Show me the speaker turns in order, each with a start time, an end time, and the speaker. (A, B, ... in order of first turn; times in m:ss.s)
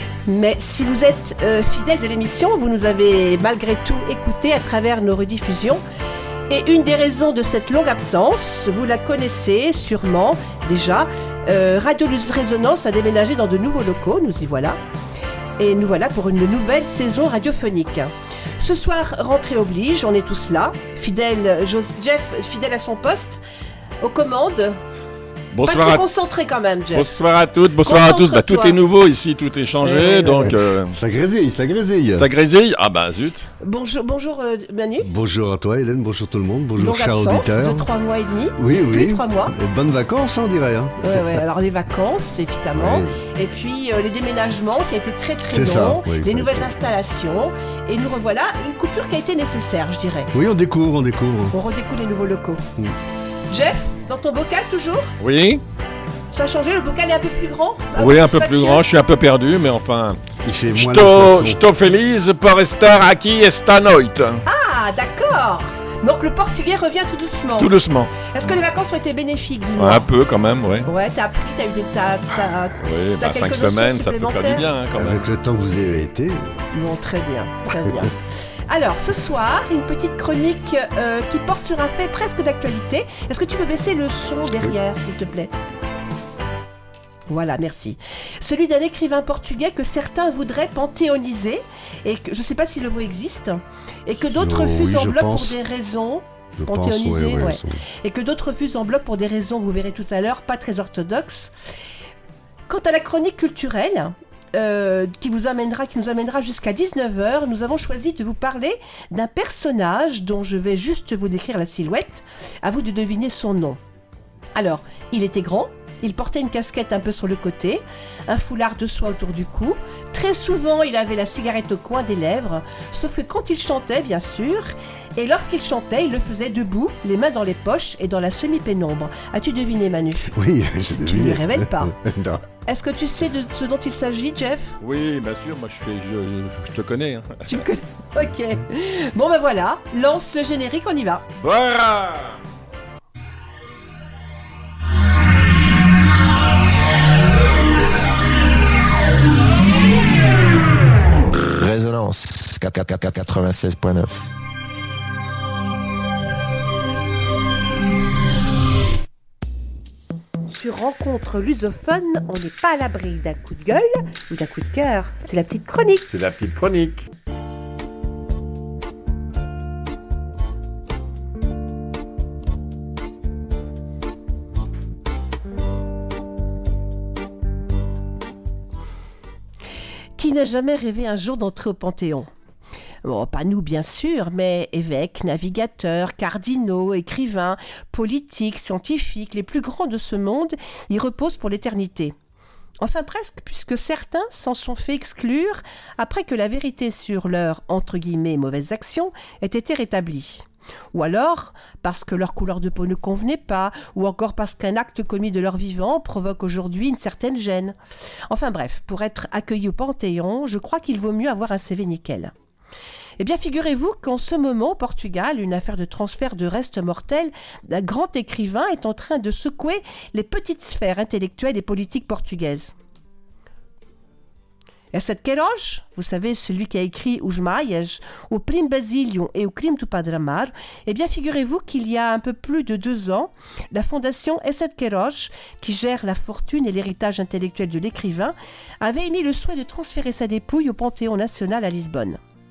0:00.2-0:05.8 A
0:06.5-0:14.8 A
0:15.6-0:23.4 A
0:24.0-0:24.8 A
0:25.5-0:26.0 B
0:25.6-0:27.1 A
0:26.9-0:31.0 B
0:27.8-0:28.8 A
0:29.8-0:30.5 A
0:30.4-0:32.3 C
0:32.2-0:33.5 B
0:33.6-0:35.1 A
0:35.0-0:37.9 C
0:36.8-0:39.5 A
0:38.6-0:41.4 C
0:41.0-0:50.3 A
0:42.7-0:43.1 C
0:45.5-0:46.7 C
0:50.3-0:51.6 C
0:51.5-0:52.6 A
0:53.5-0:55.1 A
0:55.2-0:55.6 B
0:56.3-0:58.8 A
0:58.0-1:00.2 B
1:00.4-1:01.6 C
1:00.7-1:04.4 B
1:04.4-1:07.7 A
1:07.6-1:08.3 B
1:08.2-1:10.1 A
1:09.8-1:10.9 B
1:10.8-1:14.6 A
1:12.8-1:15.2 B
1:14.9-1:16.6 C
1:16.7-1:18.2 A
1:18.7-1:25.5 A
1:27.3-1:41.5 A
1:34.4-1:35.6 C
1:36.6-1:37.8 C
1:42.7-1:53.8 A
1:54.6-2:10.3 A
2:10.3-2:12.4 C
2:10.9-2:11.9 A
2:12.7-2:14.7 A
2:14.8-2:17.6 B
2:17.5-2:21.2 A
2:21.4-2:22.4 B
2:31.3-2:34.3 D
2:40.5-2:46.1 A
2:46.1-2:47.0 B
3:00.2-3:02.3 A
3:03.0-3:12.1 A
3:12.8-3:27.8 A
3:28.3-3:32.3 A
3:33.2-3:42.7 A
3:44.9-4:02.2 A